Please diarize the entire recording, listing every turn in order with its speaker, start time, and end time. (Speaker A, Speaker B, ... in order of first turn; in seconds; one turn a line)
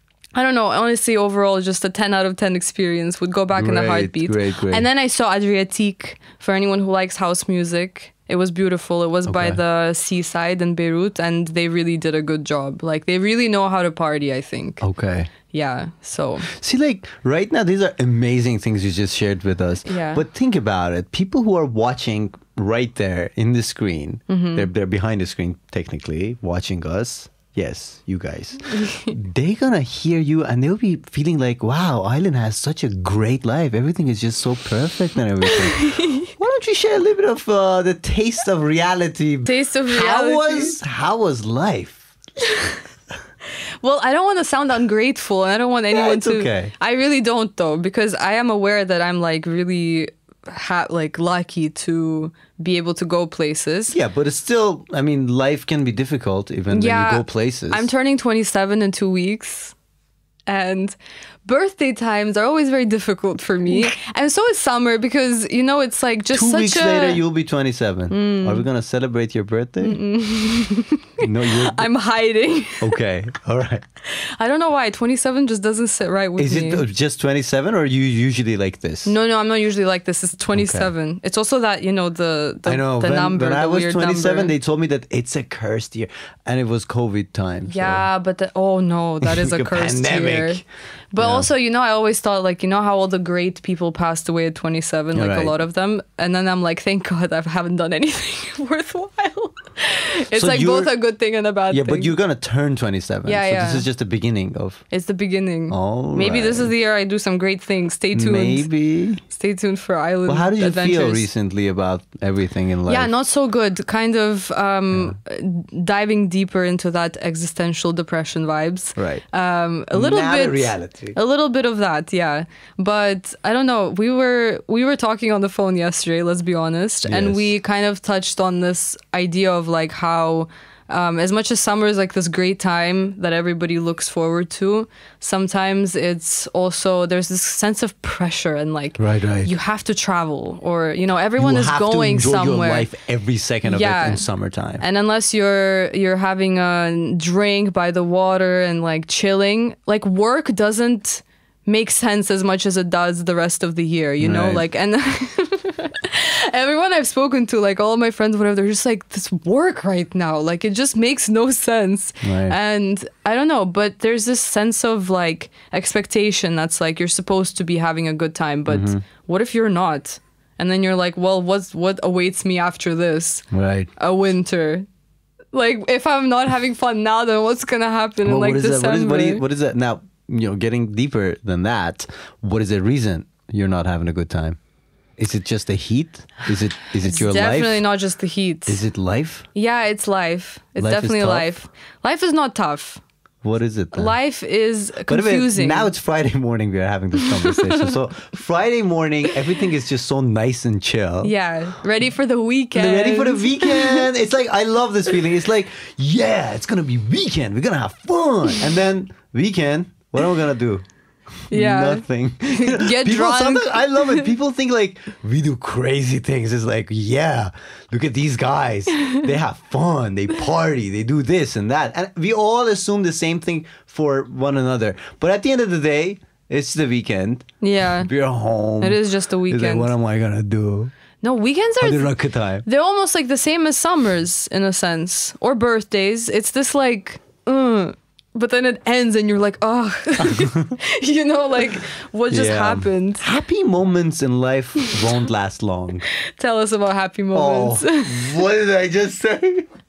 Speaker A: 0.3-14.8
Speaker B: 3.5-4.9
Speaker B: 9.3-9.6
Speaker B: 14.8-15.3
Speaker A: 15.5-16.5
Speaker B: 16.5-35.8
Speaker A: 19.9-20.2
Speaker A: 24.3-24.7
Speaker A: 28.7-29.1
Speaker A: 35.4-36.3
Speaker B: 36.4-42.1
Speaker A: 39.5-40.8
Speaker A: 42.5-42.8
Speaker A: 43.8-54.0
Speaker B: 45.9-46.7
Speaker B: 53.9-57.9
Speaker A: 56.7-59.7
Speaker A: 60.5-67.2
Speaker B: 66.3-70.0
Speaker A: 68.1-68.7
Speaker A: 69.8-72.9
Speaker B: 71.2-71.8
Speaker B: 72.8-73.8
Speaker A: 74.1-76.8
Speaker B: 76.4-79.1
Speaker A: 79.1-84.5
Speaker B: 80.5-80.9
Speaker B: 82.7-88.1
Speaker A: 87.7-90.6
Speaker B: 89.2-90.6
Speaker A: 91.1-102.2
Speaker B: 91.2-91.5
Speaker B: 95.1-95.6
Speaker B: 100.3-100.9
Speaker B: 101.7-104.8
Speaker A: 103.3-103.9
Speaker A: 104.9-108.7
Speaker B: 105.7-106.7
Speaker B: 108.1-109.2
Speaker A: 109.2-111.3
Speaker B: 110.3-113.1
Speaker A: 112.9-142.9
Speaker B: 114.9-115.2
Speaker B: 119.0-119.2
Speaker B: 119.9-121.2
Speaker B: 127.1-127.5
Speaker B: 139.0-139.5
Speaker B: 141.4-144.8
Speaker A: 143.6-144.3
Speaker A: 144.8-174.9
Speaker B: 154.2-154.6
Speaker B: 162.2-162.6
Speaker B: 168.7-169.0
Speaker B: 173.5-173.9
Speaker A: 175.5-179.4
Speaker B: 178.2-184.6
Speaker B: 185.2-187.8
Speaker A: 187.0-188.8
Speaker B: 188.7-189.4
Speaker A: 189.6-193.0
Speaker B: 190.8-191.5
Speaker B: 193.4-194.2
Speaker A: 193.9-195.9
Speaker B: 195.1-201.3
Speaker A: 197.2-197.9
Speaker A: 201.2-204.1
Speaker B: 202.7-210.8
Speaker B: 211.5-227.5
Speaker A: 211.5-214.3
Speaker A: 227.6-228.1
Speaker B: 228.0-230.9
Speaker A: 228.8-229.9
Speaker A: 231.2-232.1
Speaker B: 231.8-232.7
Speaker A: 232.7-243.3
Speaker B: 240.2-240.8
Speaker B: 242.3-246.1
Speaker A: 246.3-248.4
Speaker B: 247.3-249.7